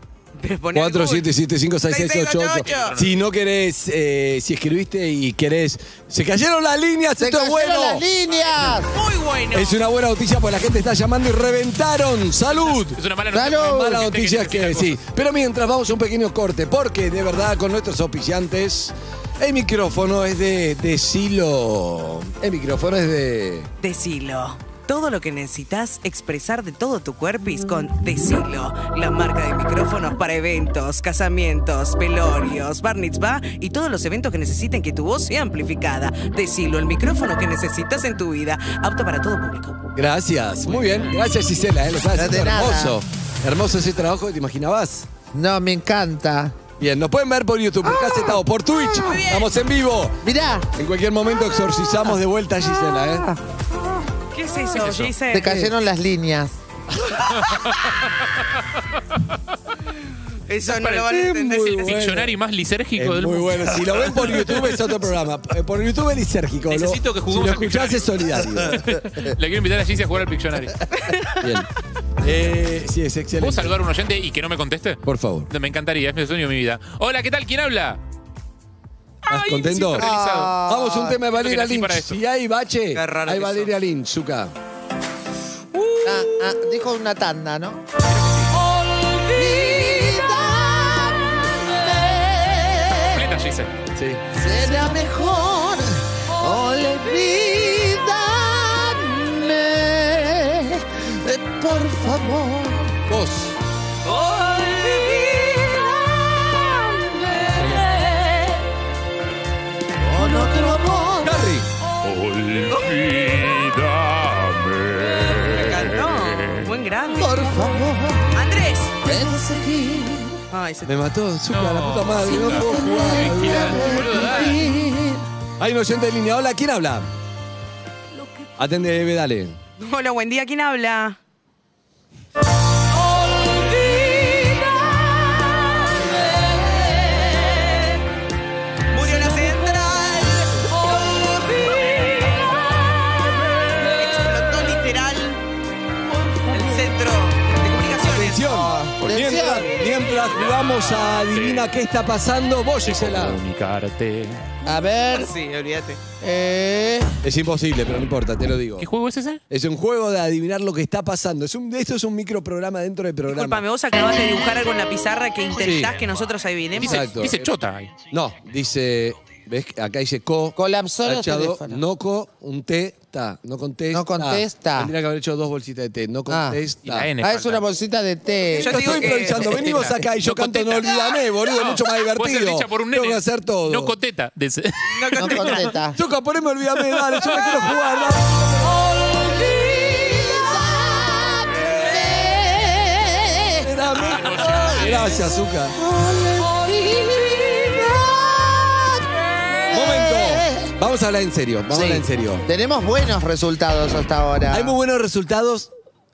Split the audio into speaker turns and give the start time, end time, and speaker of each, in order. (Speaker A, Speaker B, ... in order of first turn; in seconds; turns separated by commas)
Speaker A: 0.3-1.3, Speaker B: 0.7-8.1, Speaker A: 1.9-3.0, Speaker C: 2.6-3.2, Speaker D: 7.2-8.9, Speaker A: 8.3-9.8, Speaker B: 9.5-13.0, Speaker C: 12.5-15.0, Speaker D: 13.3-14.0, Speaker B: 13.5-23.7, Speaker A: 23.8-39.9, Speaker B: 40.0-45.1, Speaker D: 42.1-43.0, Speaker D: 45.3-46.6, Speaker B: 46.8-50.2, Speaker A: 49.0-49.5, Speaker D: 50.2-50.7, Speaker B: 50.8-53.3, Speaker D: 53.1-53.4, Speaker A: 54.3-55.7, Speaker C: 54.8-55.1, Speaker D: 55.3-56.6, Speaker A: 60.5-62.2, Speaker B: 60.8-62.3, Speaker C: 61.9-64.6, Speaker B: 63.0-69.0, Speaker C: 66.7-70.8, Speaker B: 71.4-71.7, Speaker B: 72.2-73.7, Speaker C: 73.4-78.0, Speaker B: 75.0-75.5, Speaker B: 79.3-80.1, Speaker C: 79.3-80.5, Speaker D: 80.0-81.2, Speaker B: 80.6-84.5, Speaker C: 81.3-82.2, Speaker A: 82.9-83.7, Speaker D: 86.0-87.8, Speaker C: 88.0-88.5, Speaker D: 89.3-93.2, Speaker C: 93.1-93.7, Speaker B: 94.0-94.2, Speaker D: 94.3-103.0, Speaker B: 103.1-103.6, Speaker A: 104.2-105.6, Speaker D: 110.0-111.5, Speaker B: 111.2-111.7, Speaker C: 112.0-116.6, Speaker A: 115.4-117.6, Speaker D: 117.1-118.3, Speaker A: 118.3-119.0, Speaker D: 119.0-120.4, Speaker A: 120.5-121.0, Speaker B: 120.8-124.2, Speaker C: 121.5-124.6, Speaker D: 122.6-125.2, Speaker B: 125.6-127.1, Speaker B: 128.6-129.6, Speaker A: 129.8-131.2, Speaker D: 134.0-134.8, Speaker A: 138.9-141.8, Speaker A: 144.0-145.4, Speaker A: 146.5-148.4, Speaker B: 148.0-153.4, Speaker D: 148.4-149.7, Speaker C: 149.0-149.3, Speaker C: 150.1-151.7, Speaker C: 152.8-154.4, Speaker D: 154.6-155.3, Speaker A: 155.1-156.0, Speaker D: 156.2-157.1, Speaker B: 157.2-158.9, Speaker C: 158.8-159.4, Speaker B: 159.5-163.6, Speaker A: 163.3-167.1, Speaker B: 165.6-166.0, Speaker B: 166.8-167.4, Speaker C: 166.8-168.0, Speaker B: 168.1-177.1, Speaker D: 170.6-171.8, Speaker D: 173.9-174.9, Speaker D: 176.3-176.6, Speaker C: 176.8-177.6, Speaker D: 177.2-179.1, Speaker A: 178.5-179.8, Speaker B: 178.5-183.9, Speaker C: 179.5-184.8, Speaker A: 184.9-185.7, Speaker D: 185.2-186.0, Speaker B: 185.9-188.9, Speaker D: 189.0-193.7, Speaker B: 193.6-195.8, Speaker C: 193.9-195.2, Speaker D: 195.8-199.1, Speaker D: 199.7-200.7, Speaker B: 199.7-202.4, Speaker D: 201.7-204.8, Speaker B: 204.5-205.7